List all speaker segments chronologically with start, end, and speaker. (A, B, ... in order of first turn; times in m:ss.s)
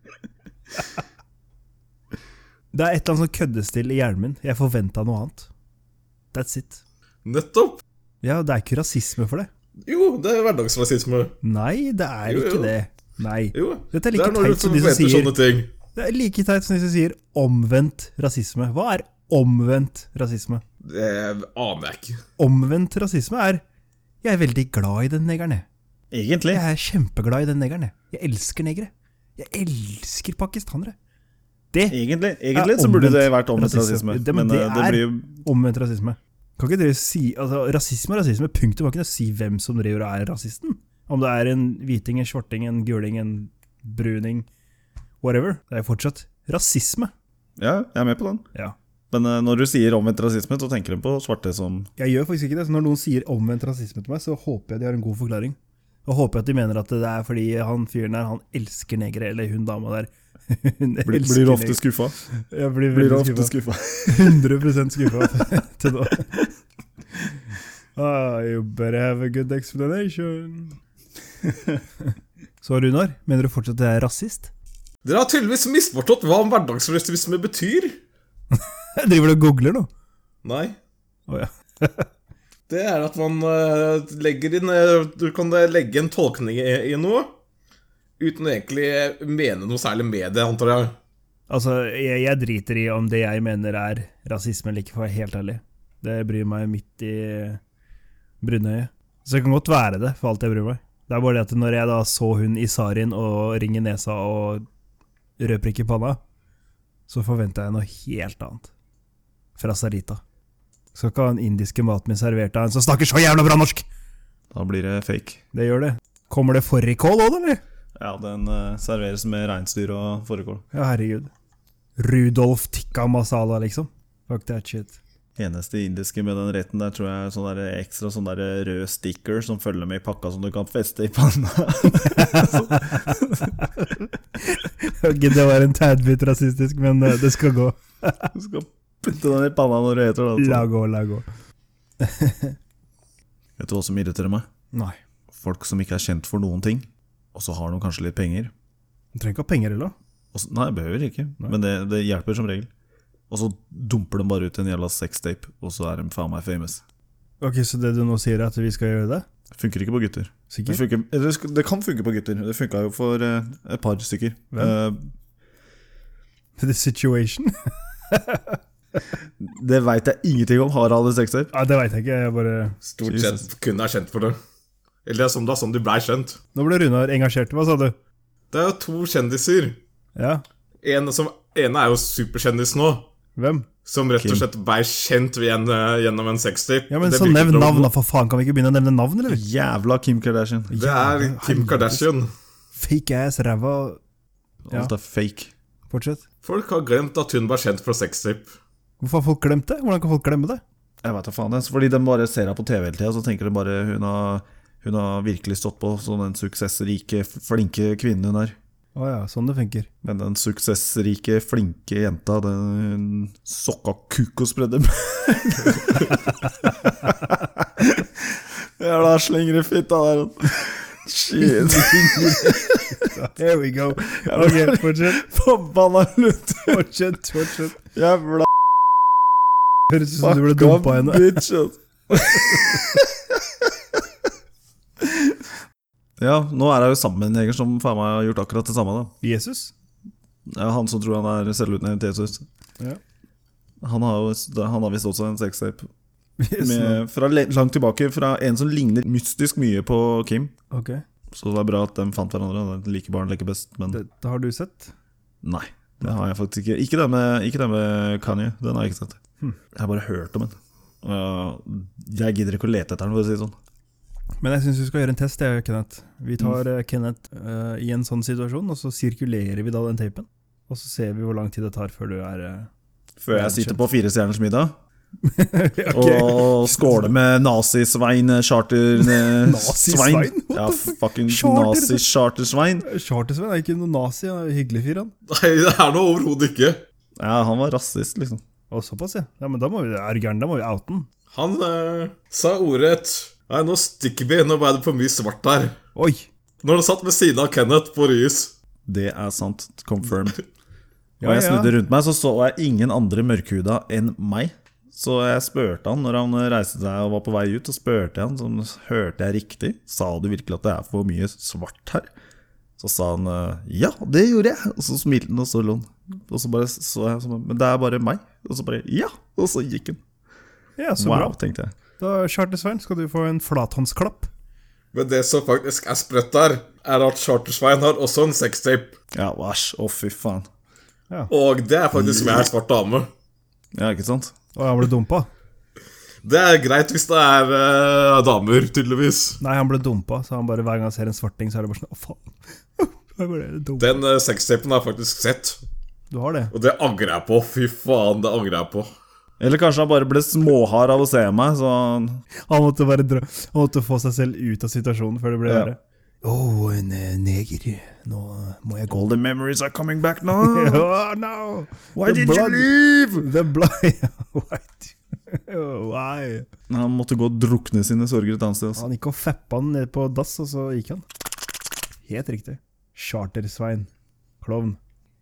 0:02.7-0:05.5 A
0:06.3-0:06.8 A
0:07.2-0:07.8 B
0:08.2-0:09.5 A
0:09.8-0:11.3 B
0:11.4-0:15.3 A
0:12.3-0:12.7 B
0:13.5-0:15.7 B
0:15.9-0:20.6 A
0:20.8-0:22.2 B
0:22.4-0:23.6 A
0:24.2-0:25.6 A
0:26.1-0:26.6 C
0:26.5-0:31.0 A
0:31.7-0:32.0 A
0:31.9-0:35.3 C
0:32.5-0:44.5 A
0:45.2-0:47.1 A
0:47.6-0:48.5 C
0:49.1-0:51.9 C
0:52.0-1:01.8 A
1:01.0-1:02.2 C
1:02.3-1:03.5 A
1:02.9-1:04.3 C
1:04.0-1:06.4 A
1:08.0-1:10.8 A
1:12.6-1:14.5 A
1:15.0-1:18.0 B
1:18.5-1:19.9 A
1:20.4-1:20.8 B
1:21.3-1:22.1 A
1:22.7-1:27.3 B
1:28.2-1:30.9 B
1:31.5-1:37.6 A
1:38.4-1:44.6 A
1:45.4-1:46.2 A
1:47.1-1:48.7 A
1:49.6-1:50.2 A
1:50.9-1:53.8 A
1:54.5-1:55.4 C
1:55.5-1:57.6 A
1:58.0-2:00.6 C
2:00.7-2:01.3 A
2:02.0-2:05.0 A
2:05.4-2:13.7 C
2:12.1-2:18.3 A
2:18.3-2:20.7 C
2:20.4-2:21.2 A
2:22.0-2:22.6 A
2:23.6-2:24.4 C
2:25.3-2:28.5 C
2:29.1-2:29.9 A
2:30.3-2:32.7 C
2:33.3-2:36.8 C
2:37.4-2:39.2 A
2:39.5-2:45.0 C
2:40.5-2:40.8 A
2:46.6-2:48.6 A
2:49.4-2:51.5 C
2:51.5-2:52.8 A
2:52.8-2:54.4 B
2:53.0-2:53.4 C
2:55.0-2:56.4 B
2:56.5-2:57.9 A
2:58.5-2:59.8 B
3:00.2-3:00.4 A
3:00.8-3:03.1 B
3:03.4-3:03.7 A
3:03.8-3:07.9 B
3:04.2-3:04.5 C
3:06.9-3:09.4 A
3:09.3-3:10.7 C
3:10.7-3:12.0 A
3:10.7-3:12.3 B
3:12.7-3:14.0 A
3:14.6-3:15.5 C
3:15.9-3:16.2 A
3:16.4-3:18.6 B
3:19.0-3:20.6 A
3:21.0-3:28.6 C
3:28.9-3:29.9 A
3:30.0-3:43.1 C
3:41.4-3:45.2 A
3:44.2-3:46.8 C
3:46.6-3:47.8 A
3:47.8-3:48.5 C
3:49.9-3:51.4 A
3:50.2-3:53.3 C
3:52.2-3:52.8 A
3:55.0-3:55.5 C
3:56.2-3:59.1 C
3:59.2-3:59.7 A
4:00.4-4:02.4 C
4:03.8-4:05.9 C
4:06.4-4:07.0 A
4:06.6-4:10.5 C
4:10.7-4:11.0 A
4:11.3-4:14.0 C
4:13.9-4:14.9 A
4:15.4-4:19.2 C
4:19.7-4:23.6 C
4:24.4-4:32.7 A
4:33.2-4:34.8 C
4:33.3-4:33.8 A
4:35.2-4:37.1 A
4:35.9-4:42.8 C
4:39.0-4:42.0 A
4:42.8-4:45.1 A
4:45.3-4:46.8 B
4:47.2-4:48.4 C
4:48.7-4:51.1 A
4:51.3-4:55.8 B
4:55.9-4:56.3 A
4:56.6-4:58.5 B
4:58.9-5:00.4 C
5:01.2-5:01.7 A
5:01.2-5:12.1 C
5:12.8-5:20.0 C
5:20.8-5:21.3 A
5:21.0-5:21.7 C
5:22.0-5:24.3 A
5:24.9-5:28.9 B
5:29.1-5:30.5 C
5:31.3-5:33.1 B
5:31.9-5:32.5 C
5:33.7-5:34.3 C
5:34.5-5:35.3 A
5:36.2-5:39.4 B
5:39.4-5:44.0 A
5:43.8-5:45.6 B
5:46.1-5:46.5 A
5:46.5-5:48.9 B
5:49.4-5:52.2 C
5:52.5-5:59.1 A
5:55.4-5:55.7 C
5:58.9-6:00.8 C
6:00.4-6:06.4 A
6:02.0-6:03.3 C
6:06.7-6:08.8 C
6:08.8-6:11.0 A
6:12.0-6:13.9 A
6:14.4-6:14.8 A